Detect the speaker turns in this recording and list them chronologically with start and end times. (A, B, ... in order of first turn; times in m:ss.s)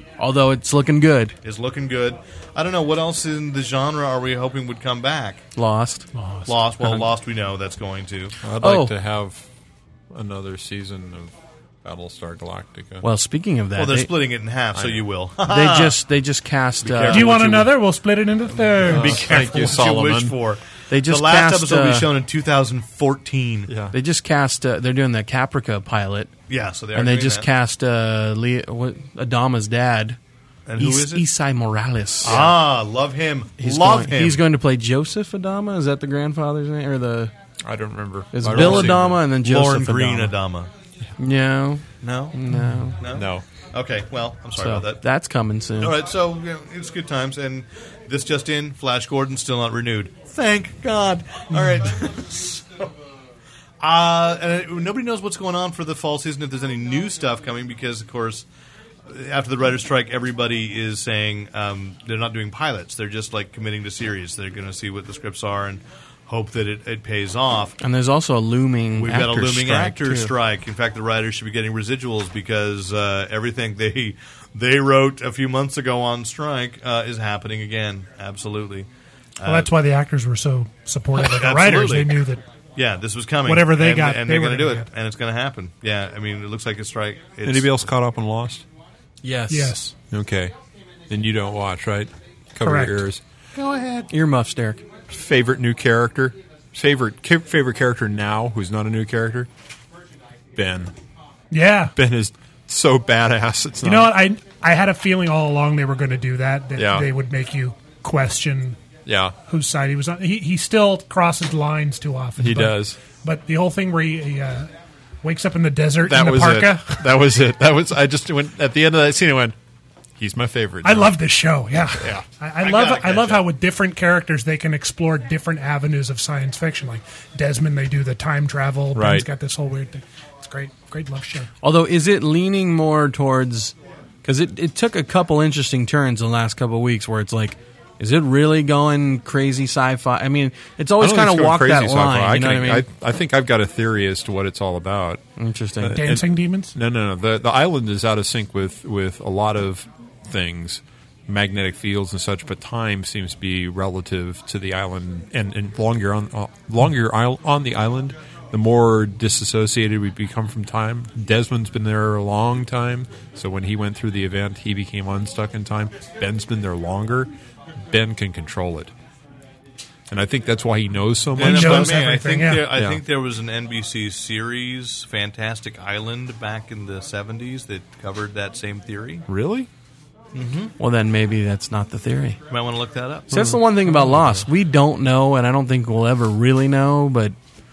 0:00.2-0:01.4 A
0:01.4-0:05.4 B
0:05.6-0:06.1 A
0:06.2-0:06.5 C
0:06.5-0:08.4 B
0:08.4-0:09.5 D
0:08.6-0:08.9 A
0:10.1-0:11.3 D
0:11.8-0:13.0 D
0:13.0-0:14.1 A
0:13.8-0:16.0 B
0:14.8-0:15.1 D
0:15.5-0:17.3 A
0:16.8-0:17.8 D
0:17.1-0:19.4 C
0:18.8-0:23.7 B
0:18.8-0:20.4 D
0:20.9-0:22.1 A
0:23.7-0:24.0 D
0:23.9-0:26.3 A
0:26.5-0:27.5 B
0:26.9-0:30.2 A
0:30.7-0:31.2 B
0:30.8-0:32.5 A
0:32.2-0:34.4 B
0:32.3-0:32.5 D
0:33.6-0:37.3 A
0:37.6-0:39.2 D
0:38.3-0:40.4 A
0:38.5-0:40.7 B
0:41.2-0:43.0 A
0:42.0-0:42.4 B
0:42.5-0:42.9 C
0:43.0-0:45.0 B
0:43.1-0:43.4 D
0:44.6-0:46.0 A
0:45.8-0:52.9 B
0:53.8-0:58.5 B
0:59.1-1:07.8 B
1:07.8-1:10.3 A
1:09.0-1:18.9 B
1:09.2-1:09.7 D
1:19.4-1:19.7 B
1:19.4-1:22.4 C
1:21.2-1:22.2 B
1:22.8-1:27.8 B
1:23.5-1:24.9 C
1:27.4-1:28.6 D
1:29.2-1:29.8 A
1:29.5-1:30.0 C
1:30.1-1:30.5 D
1:31.1-1:33.2 D
1:32.6-1:33.0 C
1:33.6-1:34.1 B
1:34.1-1:34.8 A
1:35.1-1:39.5 D
1:40.6-1:40.9 D
1:41.5-1:41.9 C
1:42.0-1:44.1 D
1:43.8-1:48.8 C
1:46.8-1:47.1 D
1:49.1-1:49.4 D
1:49.5-1:54.7 C
1:52.4-1:53.0 D
1:55.2-1:57.1 C
1:56.0-1:59.6 D
2:00.2-2:01.2 D
2:00.8-2:11.5 C
2:02.0-2:02.2 D
2:02.6-2:03.4 B
2:09.0-2:09.3 D
2:11.6-2:22.8 A
2:21.0-2:25.2 D
2:25.4-2:26.0 A
2:25.8-2:48.9 D
2:25.9-2:26.8 C
2:50.1-2:52.0 D
2:51.4-2:52.7 C
2:51.4-2:59.3 B
2:52.7-2:53.0 D
2:59.3-2:59.7 D
3:00.3-3:00.8 B
3:00.8-3:02.4 A
3:02.5-3:03.3 B
3:03.3-3:07.4 A
3:03.3-3:04.4 D